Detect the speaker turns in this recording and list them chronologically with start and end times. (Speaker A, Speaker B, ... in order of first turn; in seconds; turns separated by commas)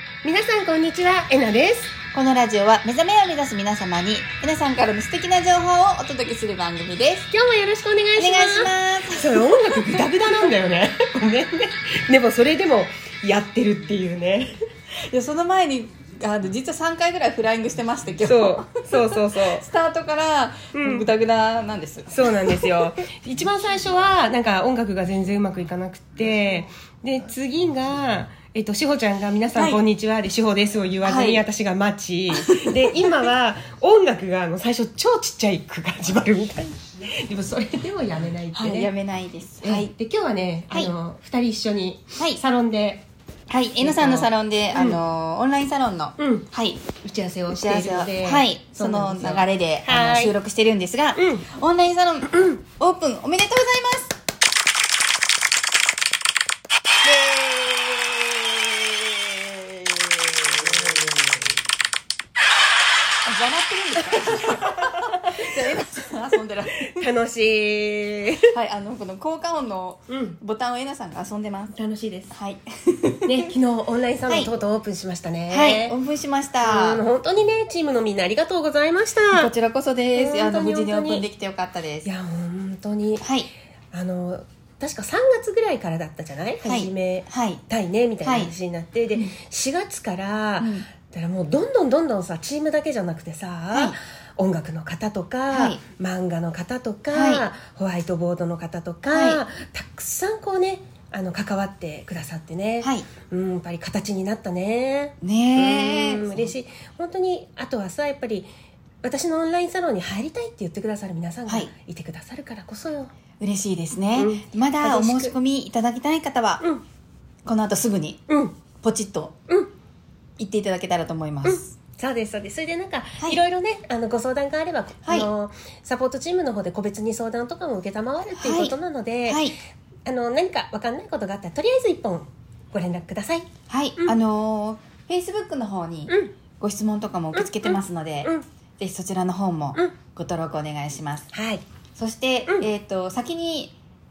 Speaker A: 0.2-1.9, Speaker B: 2.1-7.3, Speaker A: 7.3-14.5, Speaker B: 8.2-10.0, Speaker B: 15.1-22.9, Speaker A: 18.2-19.6, Speaker A: 20.7-21.1, Speaker A: 22.1-38.9, Speaker B: 29.5-29.8, Speaker B: 31.0-31.4, Speaker B: 32.3-33.2, Speaker B: 38.5-39.9, Speaker A: 39.6-43.0, Speaker B: 42.1-42.4, Speaker B: 43.5-46.9, Speaker A: 43.8-45.0, Speaker A: 46.2-46.5, Speaker A: 47.0-50.3, Speaker B: 47.5-54.1, Speaker A: 51.1-51.5, Speaker A: 52.3-52.6, Speaker B: 57.0-61.4, Speaker A: 60.6-61.3, Speaker B: 63.2-67.1, Speaker A: 64.0-65.0, Speaker A: 66.8-68.5, Speaker B: 68.4-71.7, Speaker A: 70.1-70.4, Speaker A: 71.7-72.3, Speaker B: 72.3-73.5, Speaker A: 73.2-75.9, Speaker B: 75.5-77.0, Speaker A: 76.6-79.5, Speaker B: 79.3-82.1, Speaker A: 80.2-81.2, Speaker A: 82.0-83.2, Speaker B: 83.2-83.5, Speaker A: 83.9-108.5, Speaker B: 86.6-87.6, Speaker B: 88.2-88.5, Speaker B: 90.6-90.9, Speaker B: 93.7-94.0, Speaker B: 95.5-95.8, Speaker B: 97.1-97.5, Speaker B: 99.1-99.4, Speaker B: 102.8-103.1, Speaker B: 105.2-106.5, Speaker A: 109.0-113.1, Speaker B: 113.4-116.6, Speaker A: 114.1-115.3, Speaker B: 117.4-118.2, Speaker A: 118.3-118.5, Speaker B: 118.8-119.3, Speaker B: 120.4-121.7, Speaker A: 121.4-129.5, Speaker B: 125.0-125.3, Speaker B: 128.4-129.6, Speaker A: 130.0-133.5, Speaker B: 133.7-141.3, Speaker A: 137.3-138.4, Speaker A: 141.3-141.6, Speaker B: 141.9-143.7